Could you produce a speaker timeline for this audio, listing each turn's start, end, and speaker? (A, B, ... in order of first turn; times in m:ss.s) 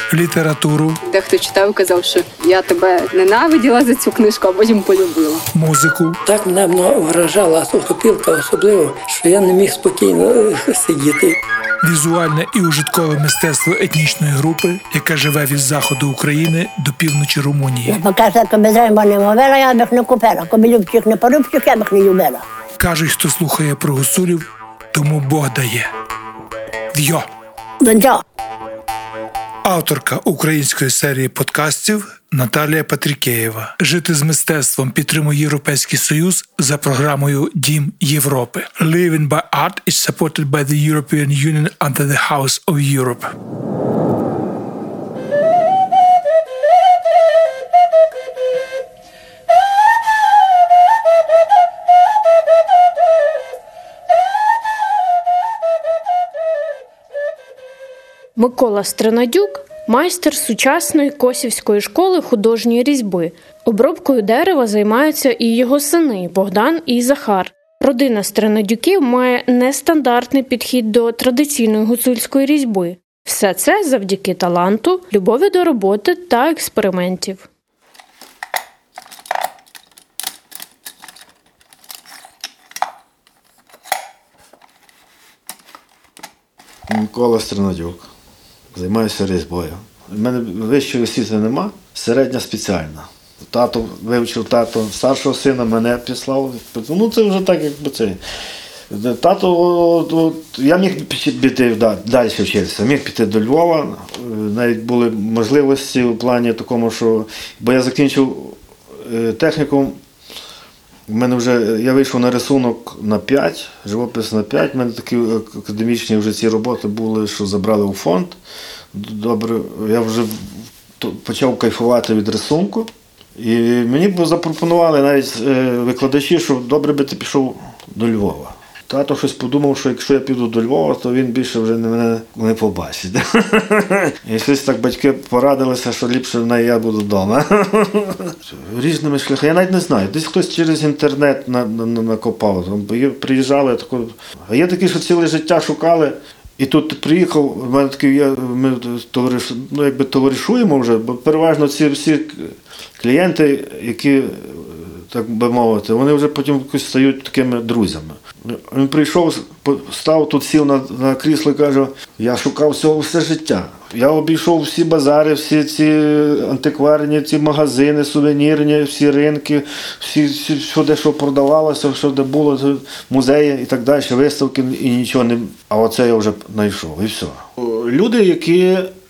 0:00.1-0:01.0 A
0:01.1-0:05.4 B
0:05.5-0:06.2 A
0:06.2-0:11.4 C
0:11.8-0:18.0 A
0:17.8-0:22.4 D
0:22.8-0:25.9 A
0:26.9-0:27.3 A
0:27.8-0:28.2 D
0:29.6-0:43.3 A
0:58.4-1:17.4 E
1:26.9-1:28.1 F
1:28.7-1:38.2 F
1:38.9-1:50.0 F
1:51.1-1:58.4 F
1:58.9-2:58.9 F